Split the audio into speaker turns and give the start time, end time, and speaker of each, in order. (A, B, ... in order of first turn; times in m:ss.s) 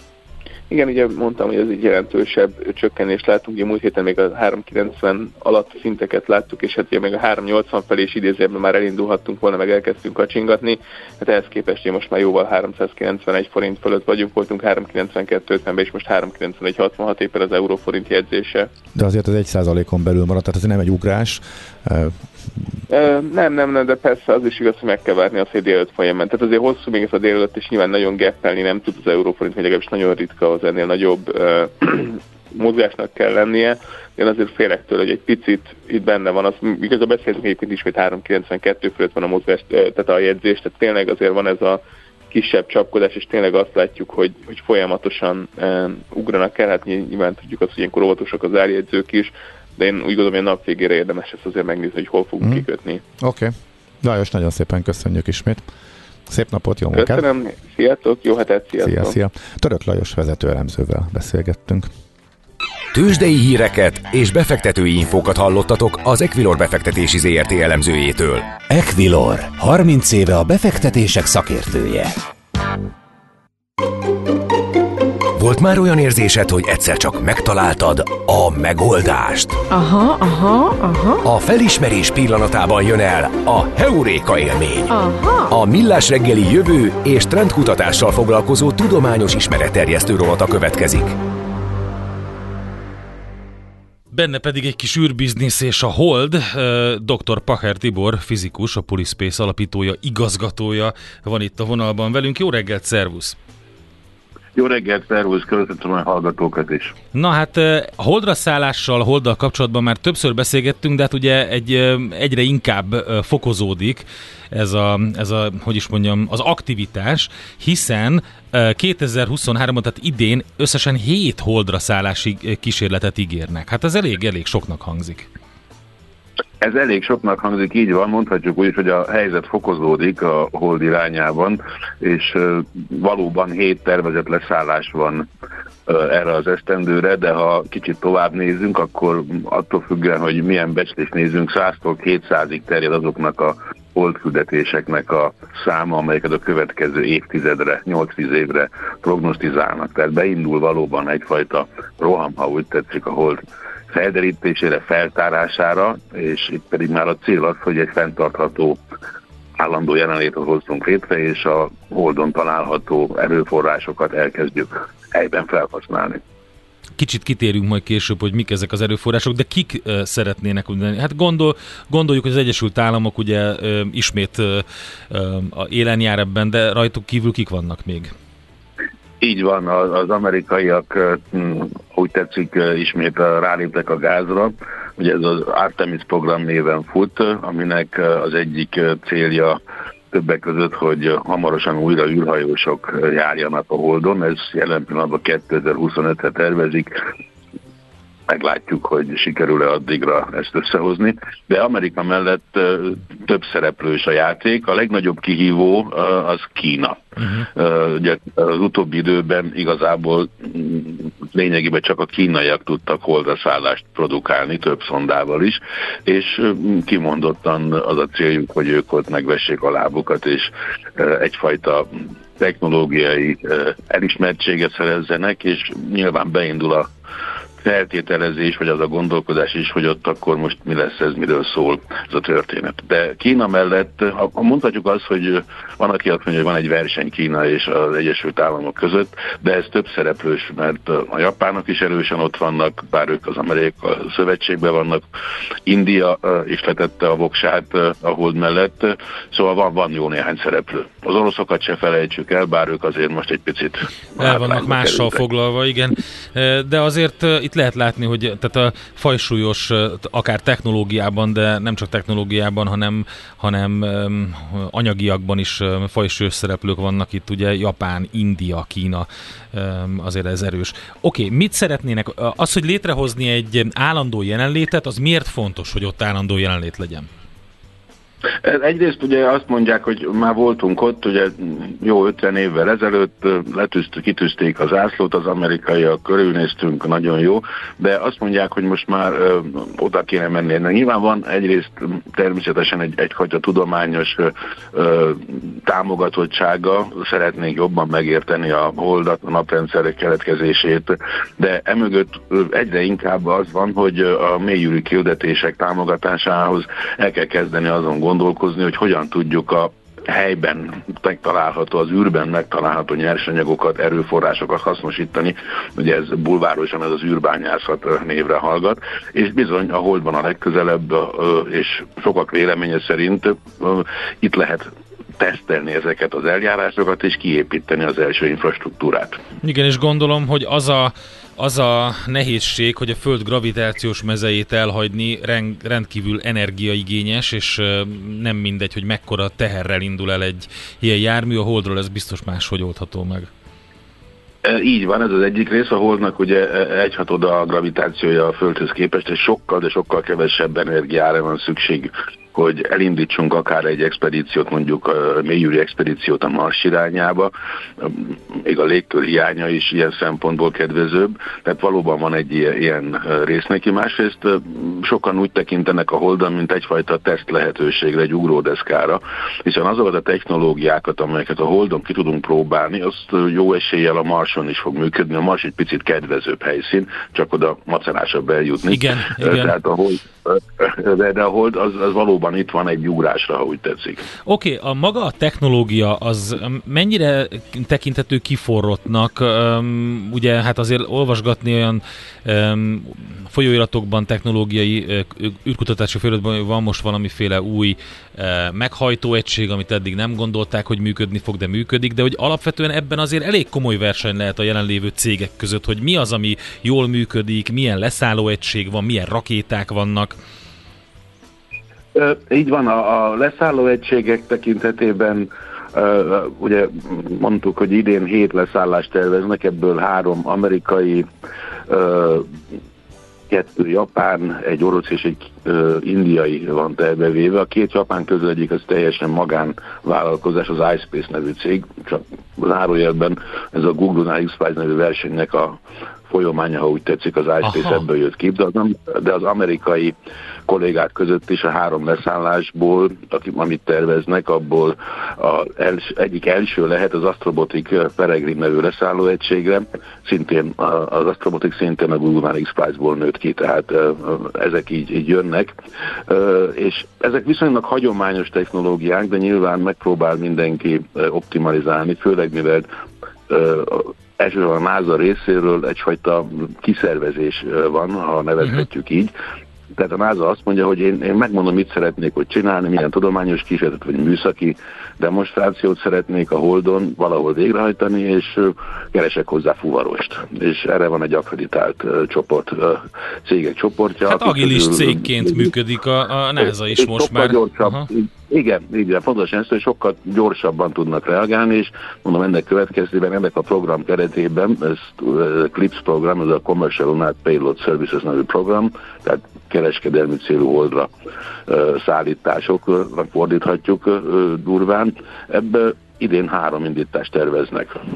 0:00.7-0:18.7 A
0:19.0-0:22.8 B
0:22.9-0:53.0 A
0:53.2-0:55.7 B
0:56.3-0:57.2 B
0:56.9-0:59.2 A
0:58.8-1:01.9 B
1:02.9-1:08.5 C
1:08.7-1:12.1 D
1:15.4-1:19.6 C
1:19.7-1:21.2 E
1:21.2-1:24.9 C
1:24.9-1:25.5 E
1:25.5-1:31.2 C
1:34.1-1:43.4 F
1:44.6-1:46.9 G
1:47.1-2:05.3 F
2:06.6-2:15.3 G
2:15.9-2:38.8 G
2:39.6-2:46.2 G
2:47.0-2:58.1 F
2:59.2-3:09.6 G
3:10.1-3:17.0 G
3:18.3-3:46.9 G
3:27.2-3:27.5 F
3:47.6-4:05.1 G
4:05.7-4:15.2 G
4:14.2-4:37.1 F
4:38.4-5:29.2 G
5:29.4-5:43.3 F
5:44.4-6:24.0 G
6:18.7-6:19.6 F
6:24.3-6:50.2 F
6:52.0-7:01.1 G
7:01.7-7:02.4 G
7:03.3-7:20.0 G
7:17.5-7:17.8 F
7:20.5-7:35.5 G
7:36.1-7:42.7 G
7:43.3-7:49.1 G
7:49.8-8:05.5 G
8:04.1-8:07.9 F
8:06.4-8:20.9 G
8:21.5-8:27.8 G